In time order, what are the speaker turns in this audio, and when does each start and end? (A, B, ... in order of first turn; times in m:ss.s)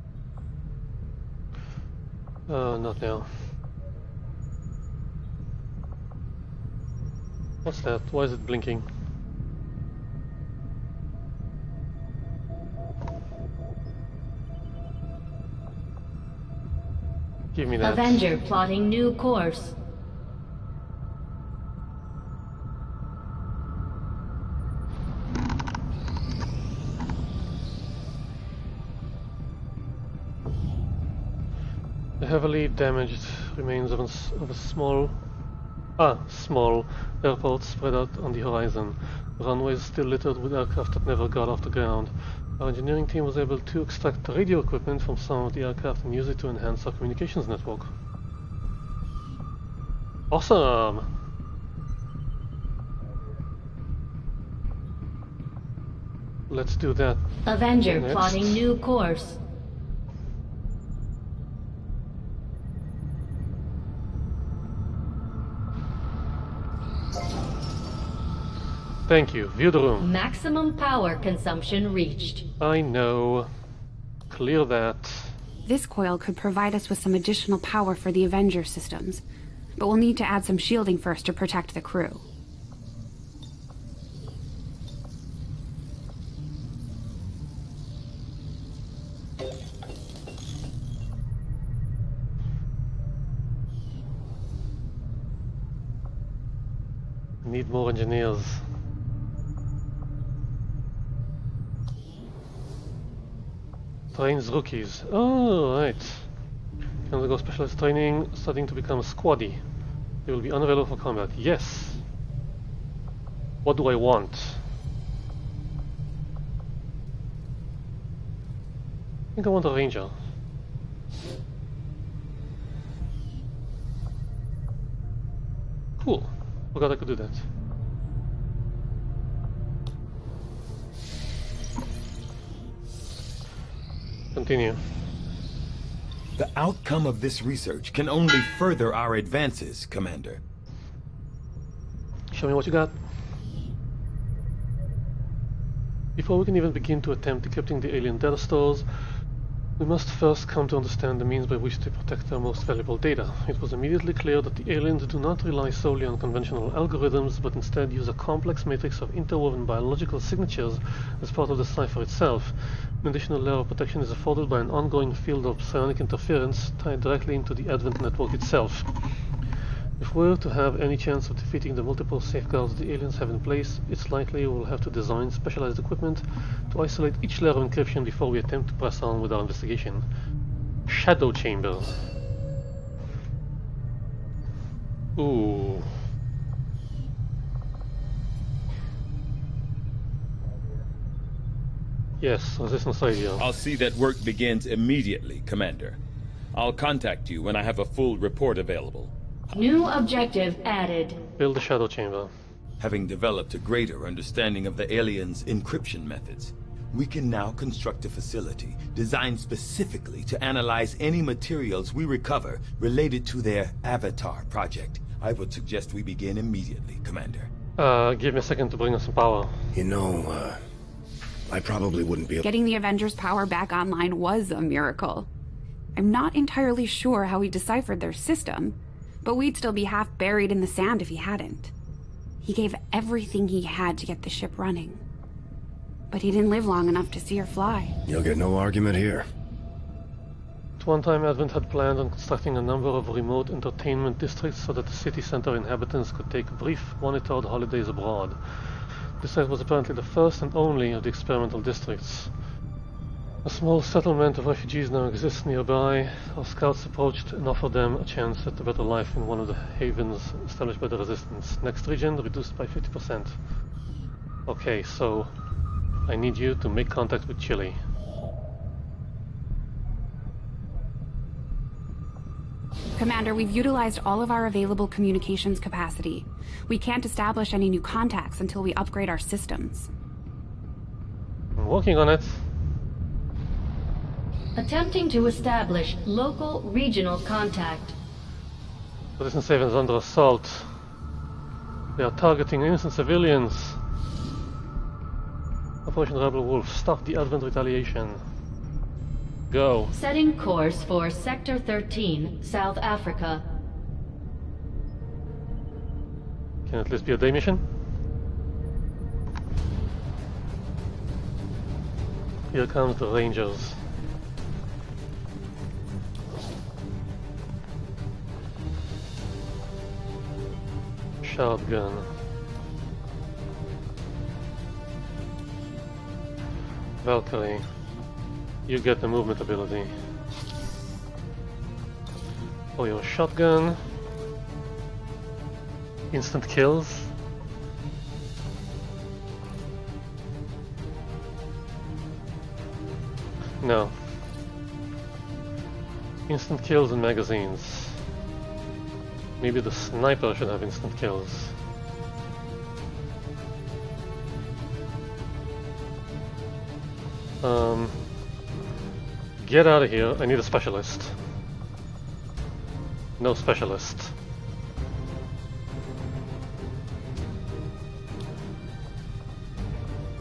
0:02.5-0:03.3 A
0:07.6-0:08.8 A
0:17.5-0:18.2 A
0:17.8-0:19.8 B
0:32.2-0:35.1 A
0:36.0-0:47.9 A
0:50.3-0:51.1 A
0:56.5-0:57.2 A
0:57.4-0:59.4 B
0:57.8-0:58.6 A
1:09.1-1:10.1 A
1:10.0-1:12.4 B
1:12.6-1:13.5 A
1:14.3-1:15.3 A
1:15.6-1:19.2 C
1:19.8-1:22.2 C
1:37.4-1:38.6 A
1:44.1-1:46.3 A
1:47.1-1:49.6 A
1:50.2-1:52.0 A
1:53.6-1:54.6 A
1:59.4-2:00.2 A
2:06.0-2:07.4 A
2:14.3-2:14.8 A
2:16.4-2:20.4 D
2:22.3-2:22.9 A
2:26.2-2:28.8 A
2:29.8-2:48.9 A
2:50.0-3:00.0 A
3:00.9-3:01.9 A
3:05.2-3:05.9 A
3:12.2-3:13.4 A
3:13.4-3:16.0 D
3:16.5-3:19.1 D
3:19.5-3:21.2 B
3:21.4-3:22.3 A
3:22.8-3:37.5 D
3:37.8-3:39.6 A
3:39.7-3:40.6 E
3:41.5-3:42.4 E
3:42.4-3:45.3 C
3:45.9-3:51.7 C
3:52.4-3:55.0 C
3:56.1-3:57.9 C
3:58.0-3:59.2 E
4:00.8-4:12.3 A
4:13.4-4:23.4 A
4:24.5-4:25.3 A
4:26.1-4:27.8 A
4:33.0-4:39.9 C
4:41.6-4:42.4 A
4:44.6-4:47.9 B
4:49.2-4:50.7 A
4:52.0-4:53.8 A
4:55.8-4:58.2 A
4:59.5-4:59.9 A
4:59.9-5:03.4 B
5:06.7-5:07.6 A
5:12.5-5:13.8 A
5:21.2-5:22.1 A
5:27.0-5:27.6 A
5:28.6-5:29.9 A
5:32.8-5:33.8 A
5:36.1-5:37.1 A
5:43.6-5:43.9 A
5:46.3-5:48.0 A
5:49.4-5:51.5 A
5:57.4-5:58.0 A
5:59.4-6:01.2 A
6:03.2-6:04.1 A